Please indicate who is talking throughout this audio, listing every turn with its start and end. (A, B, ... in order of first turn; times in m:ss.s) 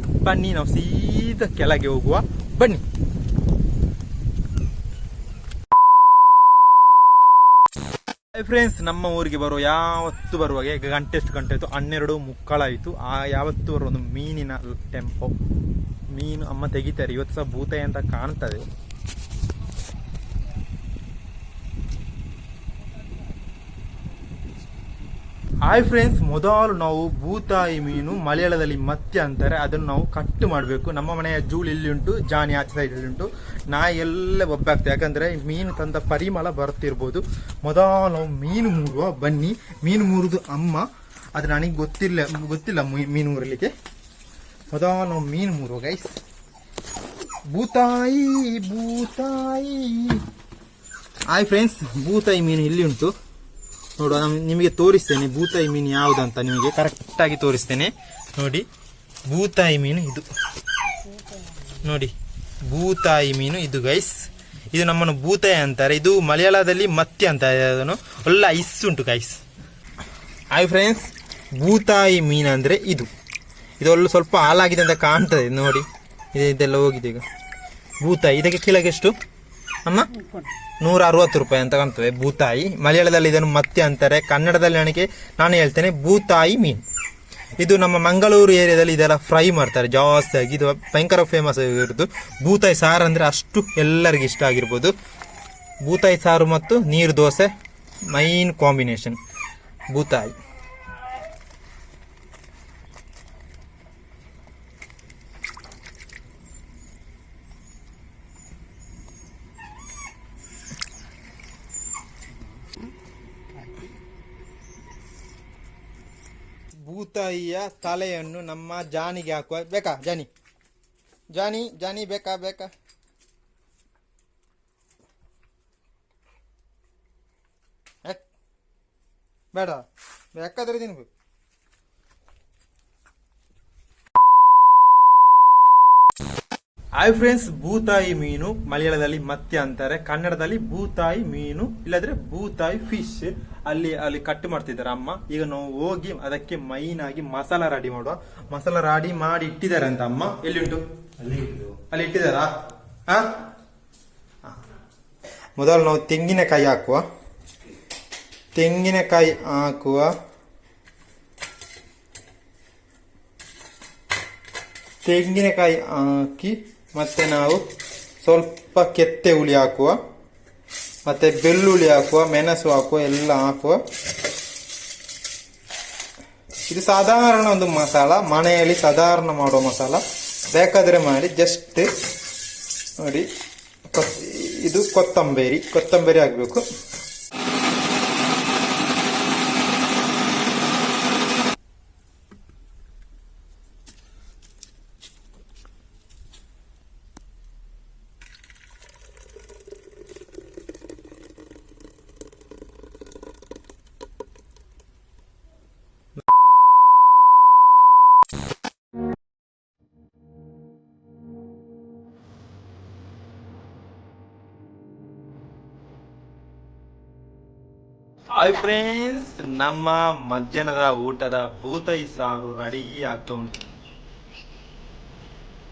0:00.2-0:02.8 A
0:08.3-0:15.4 A
0:16.1-0:18.7 A
0:25.6-0:43.7 A
0:44.7-0:46.2 A
0:47.5-0:50.2 A
0:51.3-0:53.2 A
0:54.0-0:58.7 A
0:59.3-1:00.3 A
1:01.7-1:09.4 A
1:10.5-1:13.1 A
1:13.8-1:17.2 A
1:18.0-1:19.2 A
1:19.8-1:20.2 A
1:20.8-1:26.8 A
1:27.6-1:34.9 A
1:35.8-1:37.5 A
1:38.1-1:39.2 A
1:39.9-1:40.4 A
1:56.8-2:00.3 A
2:01.3-2:02.7 A
2:09.5-2:11.1 A
2:17.0-2:32.5 A
2:33.1-2:33.4 A
2:35.6-2:37.0 A
2:38.5-2:40.2 A
2:45.0-2:47.6 A
2:48.2-2:50.0 A
2:51.1-2:53.8 A
2:56.7-3:01.9 A
3:03.0-3:03.3 A
3:03.9-3:06.6 A
3:38.3-3:43.6 A